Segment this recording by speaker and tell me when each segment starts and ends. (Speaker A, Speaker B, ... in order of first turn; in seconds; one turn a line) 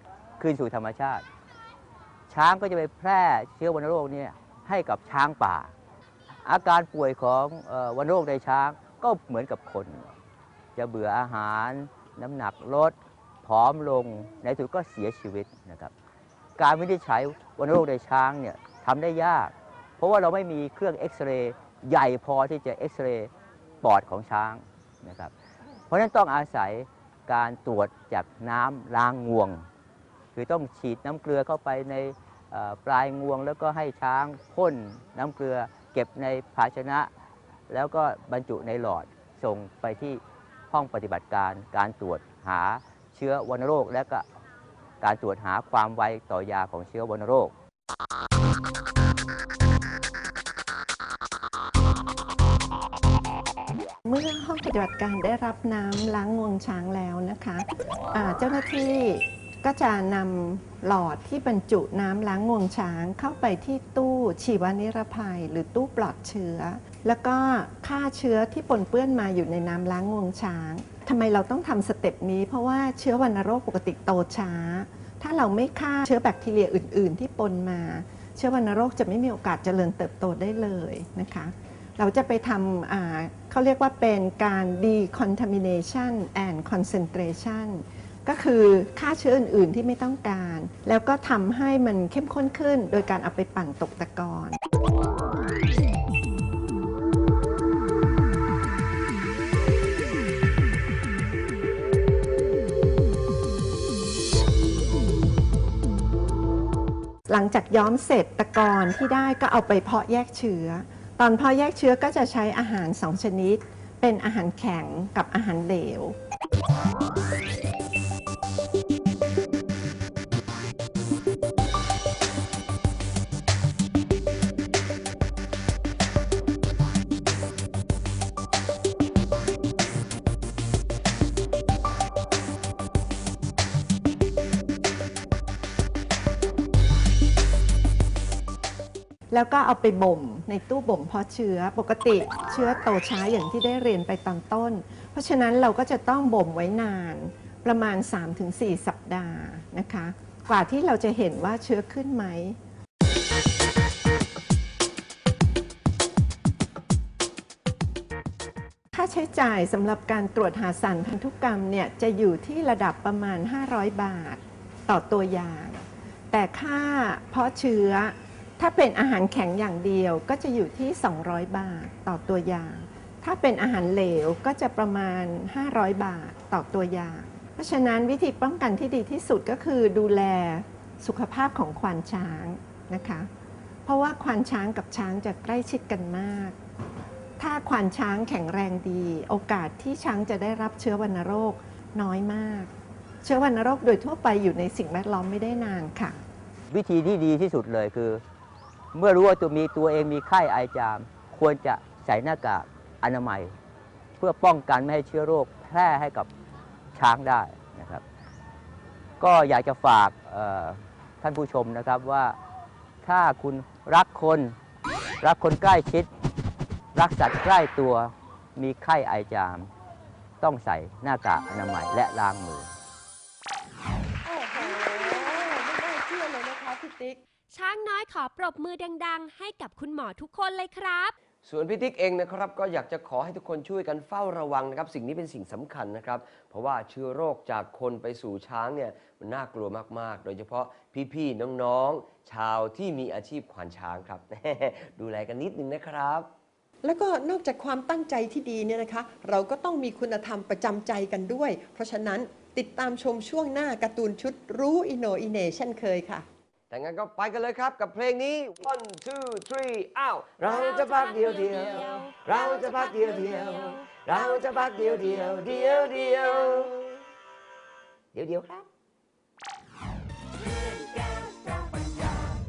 Speaker A: 0.4-1.2
Speaker A: 2.3-5.7
Speaker A: 6.4-10.1
Speaker A: 10.8-15.9
Speaker A: 16.6-23.3
Speaker A: 23.8-25.3
Speaker A: 25.9-29.6
Speaker A: 30.3-37.1
Speaker A: 37.7-44.2
Speaker A: 45.0-47.5
Speaker B: 54.1-94.6
Speaker C: 55.9-56.4
Speaker C: 59.8-60.2
Speaker C: 84.1-84.5
Speaker C: 87.1-87.7
Speaker C: 88.6-89.7
Speaker C: 90.3-94.4
Speaker B: 107.3-116.1
Speaker C: 107.7-110.6
Speaker C: 111.5-113.5
Speaker C: 114.5-114.9
Speaker C: 115.7-116.1
Speaker B: 139.3-152.6
Speaker C: 139.7-144.6
Speaker C: 145.3-146.6
Speaker C: 147.7-148.1
Speaker B: 158.9-165.8
Speaker C: 160.9-161.5
Speaker C: 163.1-163.4
Speaker C: 164.9-165.2
Speaker B: 166.3-183.2
Speaker B: 183.8-186.6
Speaker B: 187.4-192.7
Speaker C: 187.4-187.8
Speaker C: 188.6-188.9
Speaker C: 189.9-190.2
Speaker C: 191.5-192.1
Speaker C: 193.2-195.8
Speaker B: 193.2-196.2
Speaker A: 196.7-198.2
Speaker A: 198.9-203.5
Speaker A: 204.2-206.3
Speaker A: 206.9-208.0
Speaker A: 209.2-212.3
Speaker A: 213.0-214.6
Speaker A: 215.2-216.1
Speaker A: 216.9-219.7
Speaker A: 220.4-222.7
Speaker D: 224.2-227.2
Speaker E: 224.7-225.2
Speaker E: 227.5-231.1
Speaker C: 231.4-246.3
Speaker D: 246.8-256.2
Speaker C: 256.7-266.9
Speaker E: 260.4-264.3
Speaker C: 268.1-268.7
Speaker C: 270.7-272.1